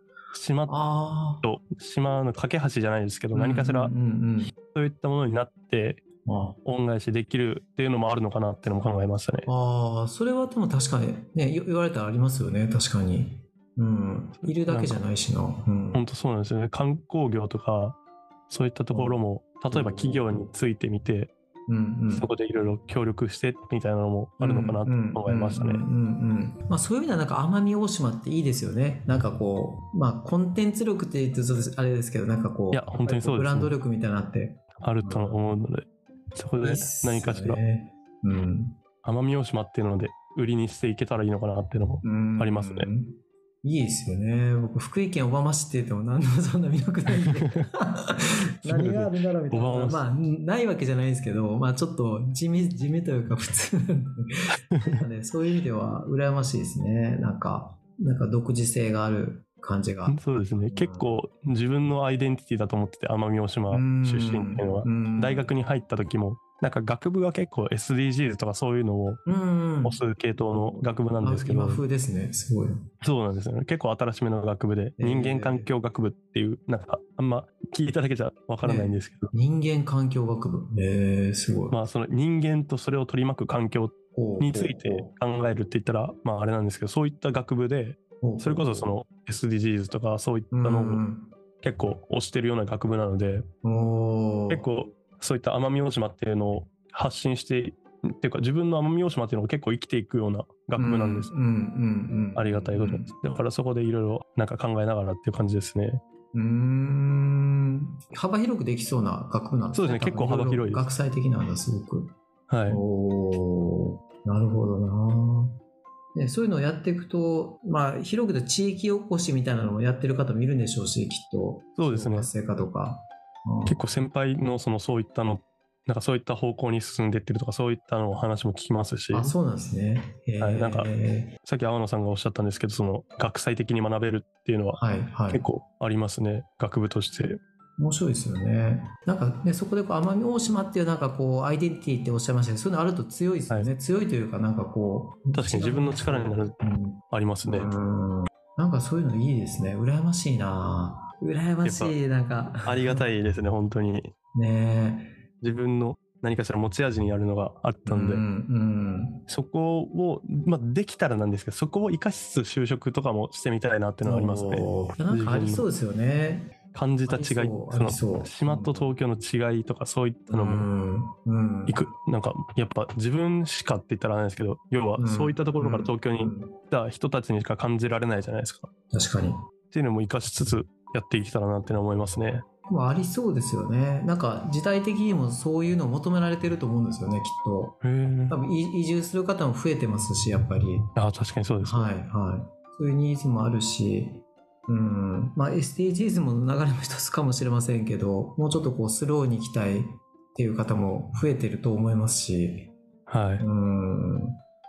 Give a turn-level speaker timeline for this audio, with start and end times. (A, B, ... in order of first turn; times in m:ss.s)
0:00.3-0:00.8 A
0:00.7-0:01.4 B
0:01.4-0:03.9 A
0:03.3-0:04.5 B
0:04.6-0:06.0 A
0:06.2-0:06.6 B
0:06.6-0:09.5 A
0:09.4-0:16.0 B
0:14.4-0:15.0 A
0:15.9-0:18.0 A
0:18.5-0:21.3 A
0:18.9-0:20.5 B
0:21.7-0:22.3 B
0:22.1-0:25.8 A
0:24.4-0:35.5 B
0:32.7-0:33.7 A
0:34.8-0:37.6 A
0:36.6-0:38.8 B
0:39.0-0:42.9 A
0:42.0-1:01.2 B
0:48.6-0:50.0 A
0:54.7-0:55.0 A
1:00.0-1:09.2 A
1:03.7-1:05.5 B
1:09.2-1:12.9 B
1:09.8-1:11.8 A
1:13.0-1:19.3 A
1:15.0-1:15.7 B
1:18.6-1:21.8 B
1:21.7-1:31.0 A
1:24.1-1:25.1 B
1:28.2-1:28.9 B
1:30.5-1:31.3 B
1:31.6-1:33.5 A
1:33.6-1:34.6 B
1:34.5-1:41.3 A
1:40.8-1:43.1 B
1:42.3-1:46.0 A
1:46.3-1:52.2 B
1:49.7-1:50.9 A
1:52.5-1:52.8 A
1:52.7-1:55.6 B
1:56.1-2:03.9 B
2:01.8-2:02.3 A
2:03.6-2:09.4 A
2:09.1-2:11.3 B
2:10.4-2:10.9 A
2:11.4-2:17.4 A
2:14.7-2:15.4 B
2:17.8-2:33.1 B
2:25.3-2:26.6 A
2:27.1-2:27.7 A
2:31.6-2:32.0 A
2:32.6-2:34.1 A
2:34.3-2:35.1 B
2:35.4-2:38.2 A
2:37.8-2:39.2 B
2:39.3-2:45.6 A
2:44.0-2:48.9 B
2:46.7-2:50.7 A
2:50.3-2:51.8 B
2:51.7-2:58.7 A
2:55.0-2:56.5 B
2:58.9-2:59.4 B
2:59.7-3:02.4 A
3:02.7-3:07.8 B
3:07.8-3:08.4 A
3:08.3-3:10.9 B
3:11.0-3:11.9 A
3:11.6-3:22.7 B
3:23.1-3:23.4 A
3:23.4-3:24.4 B